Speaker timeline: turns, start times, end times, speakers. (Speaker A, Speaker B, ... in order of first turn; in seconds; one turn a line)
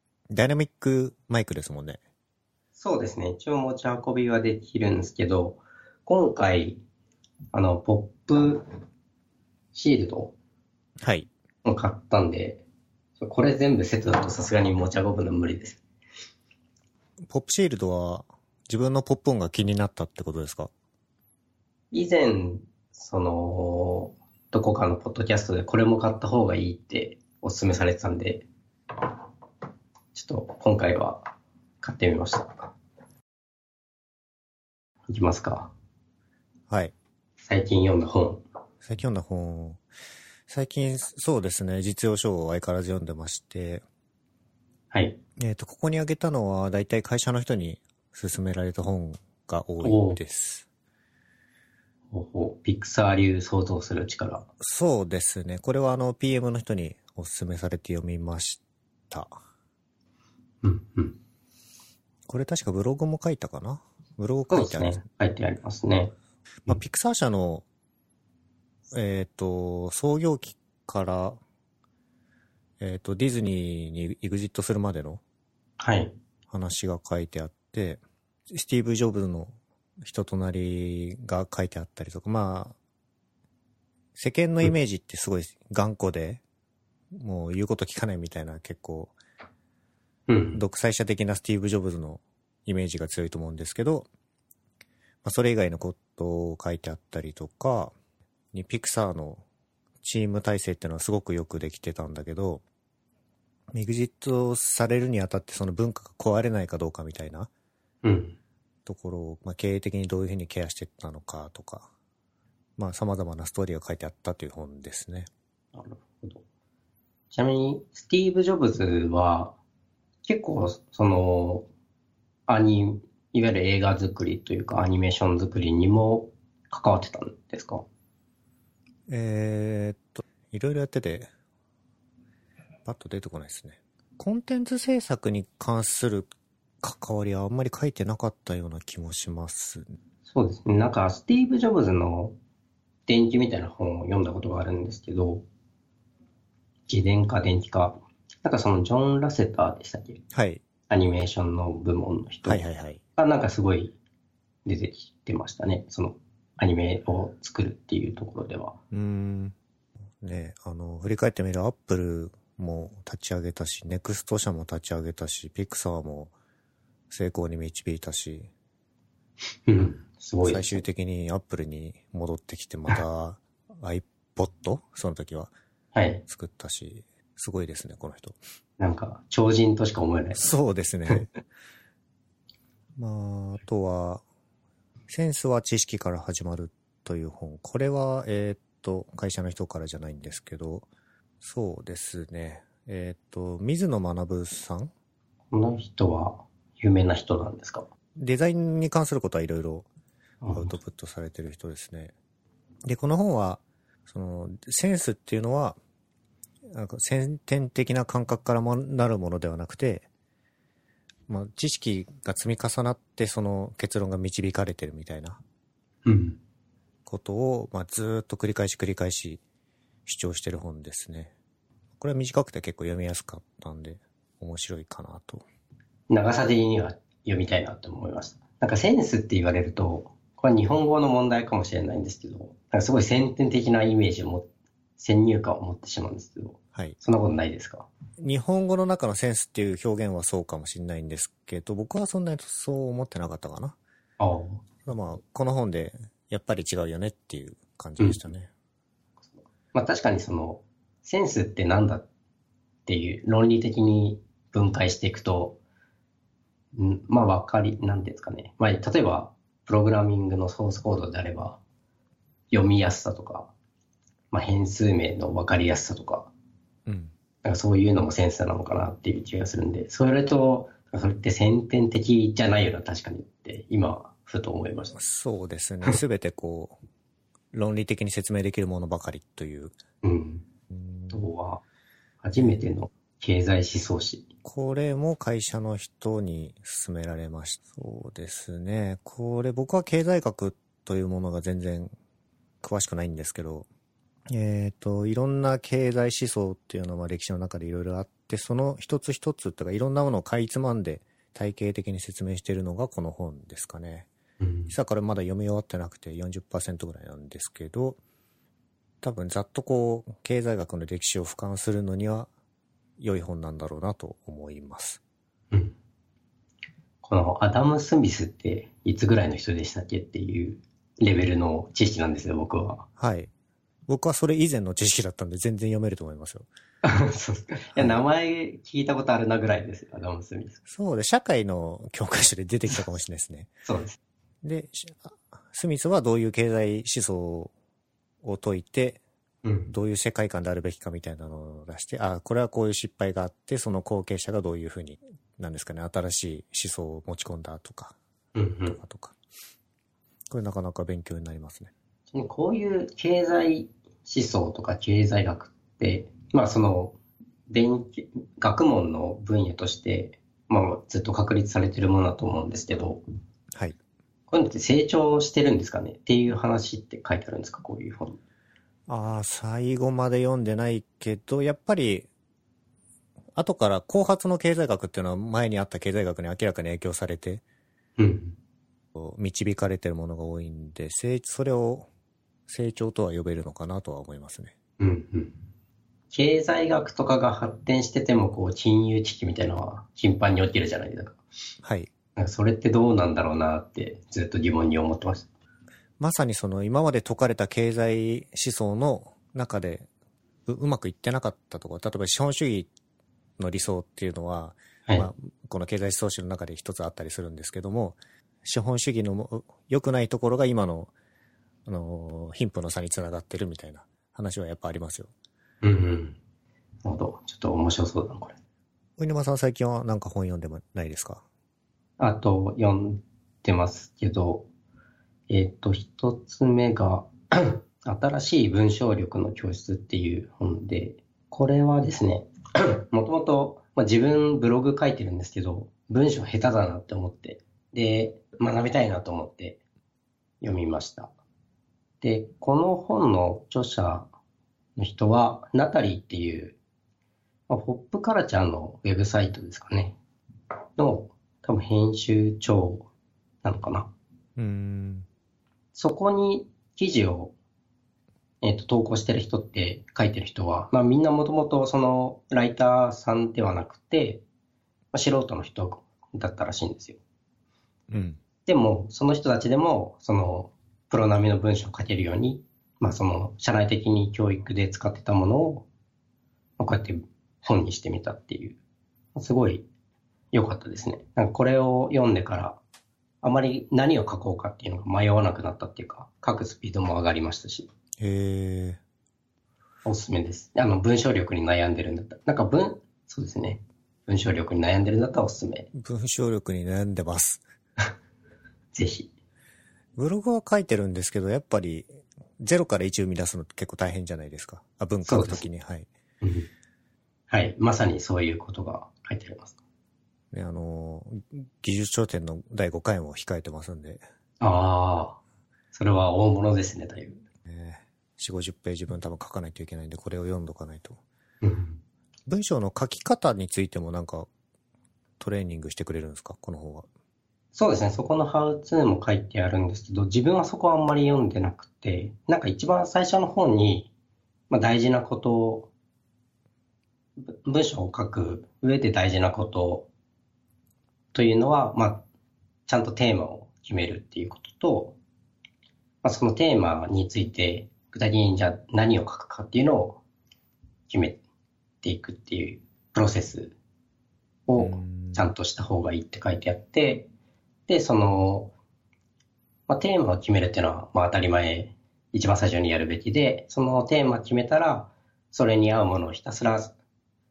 Speaker A: 0.3-2.0
Speaker B: 2.8-6.8
Speaker B: 7.5-8.7
Speaker B: 9.7-10.3
Speaker A: 11.0-11.3
Speaker B: 11.6-12.6
Speaker B: 13.2-15.8
Speaker A: 17.3-20.7
Speaker B: 21.9-28.4
Speaker B: 30.1-31.2
Speaker B: 31.8-32.7
Speaker B: 35.1-35.7
Speaker B: 37.4-38.4
Speaker A: 38.8-39.8
Speaker A: 40.5-43.8
Speaker B: 44.9-45.2
Speaker A: 45.4-50.7
Speaker B: 49.8-50.2
Speaker B: 52.1-54.5
Speaker A: 54.6-59.3
Speaker B: 60.6-61.2
Speaker A: 62.3-65.0
Speaker B: 64.5-66.1
Speaker A: 66.7-67.6
Speaker A: 68.9-71.4
Speaker A: 72.8-75.2
Speaker B: 75.8-76.2
Speaker A: 76.5-82.8
Speaker A: 84.1-86.4
Speaker A: 87.1-89.1
Speaker B: 90.3-90.6
Speaker A: 90.5-94.1
Speaker A: 95.2-97.9
Speaker A: 98.5-99.4
Speaker A: 100.0-102.6
Speaker A: 103.7-107.5
Speaker B: 108.0-108.4
Speaker A: 108.8-111.9
Speaker A: 112.8-115.3
Speaker B: 115.7-116.4
Speaker B: 117.3-119.5
Speaker B: 120.2-121.7
Speaker B: 122.5-127.8
Speaker A: 129.1-131.3
Speaker A: 132.8-136.3
Speaker A: 136.8-139.8
Speaker B: 140.2-142.3
Speaker B: 143.1-145.4
Speaker B: 146.9-150.2
Speaker A: 150.3-150.6
Speaker B: 150.9-152.6
Speaker A: 152.4-153.0
Speaker B: 153.2-153.9
Speaker B: 154.6-158.8
Speaker A: 158.9-159.5
Speaker A: 160.2-166.3
Speaker A: 167.1-168.5
Speaker B: 169.7-170.8
Speaker A: 170.4-175.5
Speaker B: 175.9-176.2
Speaker A: 176.2-178.4
Speaker B: 178.8-180.4
Speaker A: 180.3-181.3
Speaker A: 182.9-184.2
Speaker A: 185.1-190.9
Speaker A: 191.4-194.9
Speaker B: 195.5-197.8
Speaker A: 198.2-199.9
Speaker B: 200.4-200.7
Speaker A: 200.5-202.1
Speaker A: 202.8-205.8
Speaker A: 206.7-210.1
Speaker A: 211.3-215.4
Speaker B: 216.0-216.4
Speaker A: 217.1-219.4
Speaker A: 220.1-221.3
Speaker A: 222.0-225.4
Speaker B: 226.1-237.9
Speaker A: 238.2-243.8
Speaker B: 244.2-244.6
Speaker A: 244.8-248.5
Speaker B: 249.7-252.1
Speaker B: 252.8-255.6
Speaker B: 256.7-261.6
Speaker B: 262.5-263.5
Speaker B: 264.3-266.3
Speaker A: 266.9-267.1
Speaker B: 267.4-274.9
Speaker A: 274.9-276.8
Speaker A: 277.5-279.8
Speaker B: 280.0-280.4
Speaker A: 280.7-281.1
Speaker B: 281.1-281.6
Speaker B: 282.2-284.2
Speaker A: 284.4-291.9
Speaker A: 292.6-293.7
Speaker A: 294.3-304.1
Speaker B: 304.4-304.7
Speaker A: 304.7-308.0
Speaker A: 309.0-312.3
Speaker A: 313.0-315.0
Speaker B: 317.0-322.9
Speaker A: 323.0-323.3
Speaker A: 323.9-326.5
Speaker B: 326.8-330.6
Speaker A: 330.7-333.5
Speaker B: 333.6-334.0
Speaker A: 334.4-337.5
Speaker A: 338.2-339.0
Speaker B: 339.4-339.7
Speaker A: 339.7-347.9
Speaker B: 348.3-348.8
Speaker A: 348.7-349.1
Speaker A: 350.3-351.7
Speaker B: 352.1-357.0
Speaker B: 357.5-363.0
Speaker A: 363.5-363.8
Speaker B: 364.3-368.2
Speaker A: 368.9-372.1
Speaker A: 373.4-377.4
Speaker B: 378.0-378.4
Speaker A: 378.9-381.9
Speaker A: 382.5-384.5
Speaker B: 384.8-385.3
Speaker B: 386.1-391.2
Speaker A: 391.6-391.9
Speaker B: 392.1-395.3
Speaker A: 396.0-399.9
Speaker A: 400.5-402.7
Speaker A: 403.4-410.9
Speaker A: 411.6-415.1
Speaker B: 415.6-416.2
Speaker B: 416.8-418.4
Speaker A: 419.0-421.2
Speaker B: 422.0-424.5
Speaker B: 425.3-439.6
Speaker B: 440.4-441.1
Speaker B: 442.0-444.1
Speaker B: 444.8-446.6
Speaker B: 447.5-449.9
Speaker B: 450.8-452.9
Speaker B: 453.4-453.9
Speaker A: 454.4-455.1
Speaker B: 455.7-457.3
Speaker B: 458.4-464.2
Speaker B: 464.9-467.0
Speaker A: 467.9-468.2
Speaker B: 468.4-475.7
Speaker B: 476.6-478.6
Speaker B: 479.1-479.6
Speaker B: 480.3-482.6
Speaker B: 483.2-487.7
Speaker A: 488.0-488.8
Speaker B: 489.8-495.7
Speaker A: 495.7-497.4
Speaker B: 498.7-499.1
Speaker A: 500.0-505.9
Speaker B: 505.0-505.4
Speaker B: 506.2-506.5
Speaker B: 507.3-509.5
Speaker A: 510.3-514.0
Speaker B: 514.4-515.2
Speaker B: 515.7-517.2
Speaker A: 517.5-521.0
Speaker B: 521.4-521.8
Speaker A: 522.3-524.3
Speaker A: 525.2-526.9
Speaker B: 527.5-533.9
Speaker B: 534.5-535.7
Speaker B: 537.2-539.9
Speaker B: 541.1-542.0
Speaker B: 542.7-545.0
Speaker B: 546.0-550.0
Speaker B: 550.9-551.2
Speaker B: 551.8-553.5
Speaker B: 554.5-557.1
Speaker A: 554.6-555.3
Speaker B: 557.7-558.5
Speaker B: 559.7-566.7